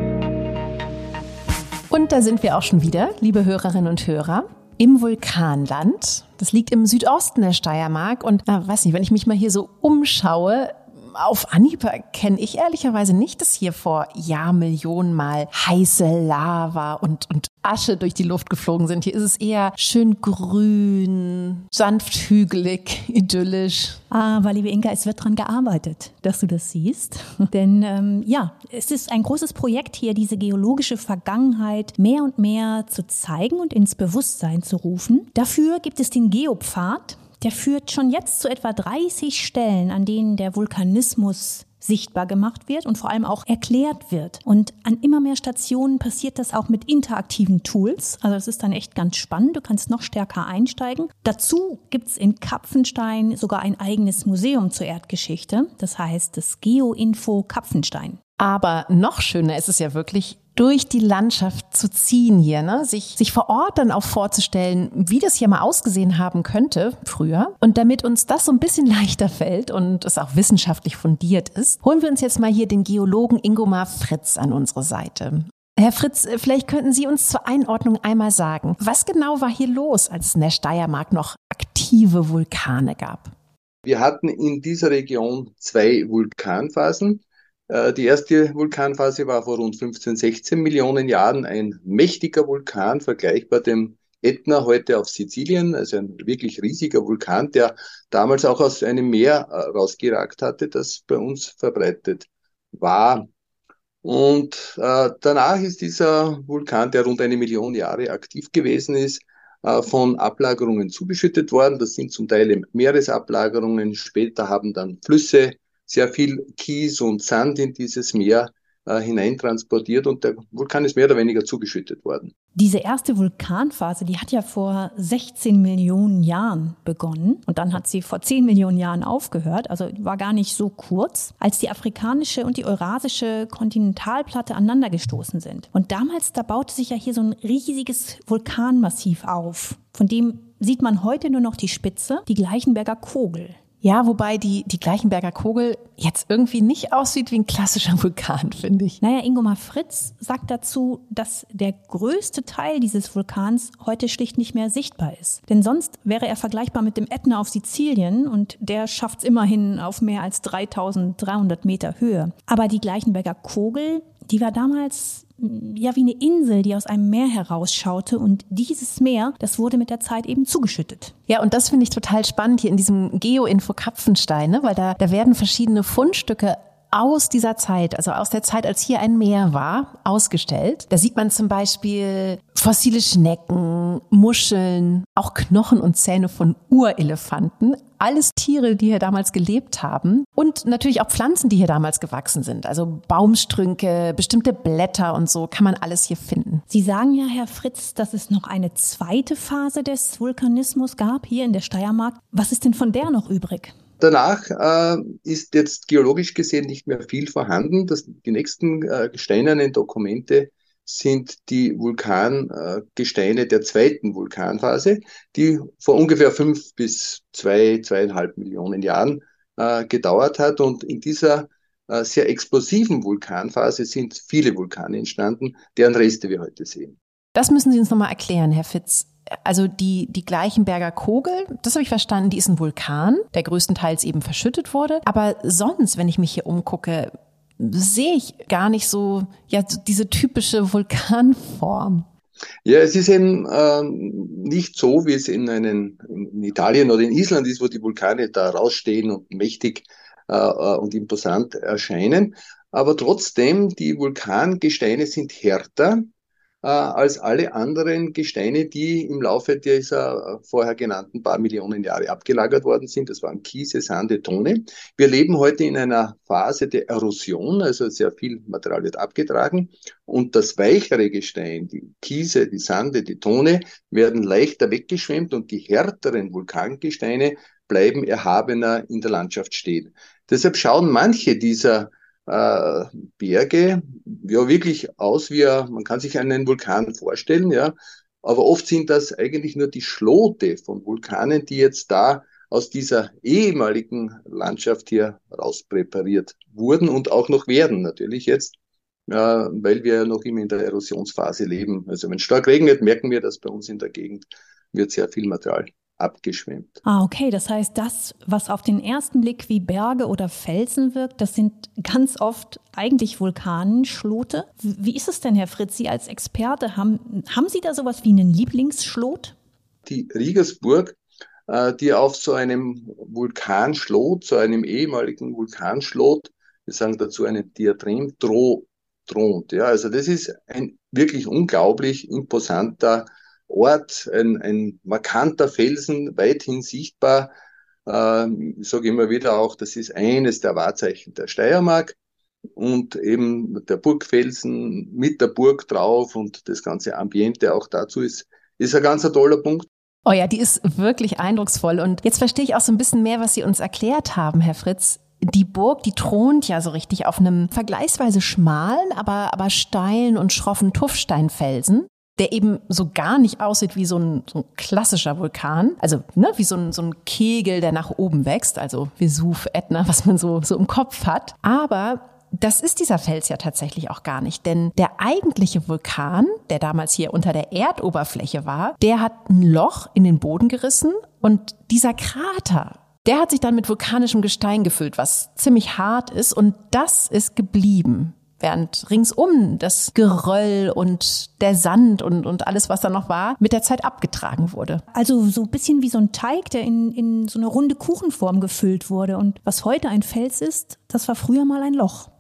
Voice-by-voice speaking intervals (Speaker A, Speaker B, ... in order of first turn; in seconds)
Speaker A: 1.9-24.0, 58.4-83.3, 143.8-149.0, 171.3-196.6, 227.3-242.1, 350.1-394.8
Speaker B: 24.1-58.2, 122.5-143.6, 149.0-171.1, 196.7-203.7, 306.9-319.4, 394.9-402.1
Speaker C: 83.8-103.3, 104.0-122.3, 204.0-226.9, 242.7-256.1, 256.6-298.5, 299.1-306.8, 319.9-337.3, 337.9-342.0, 342.6-349.7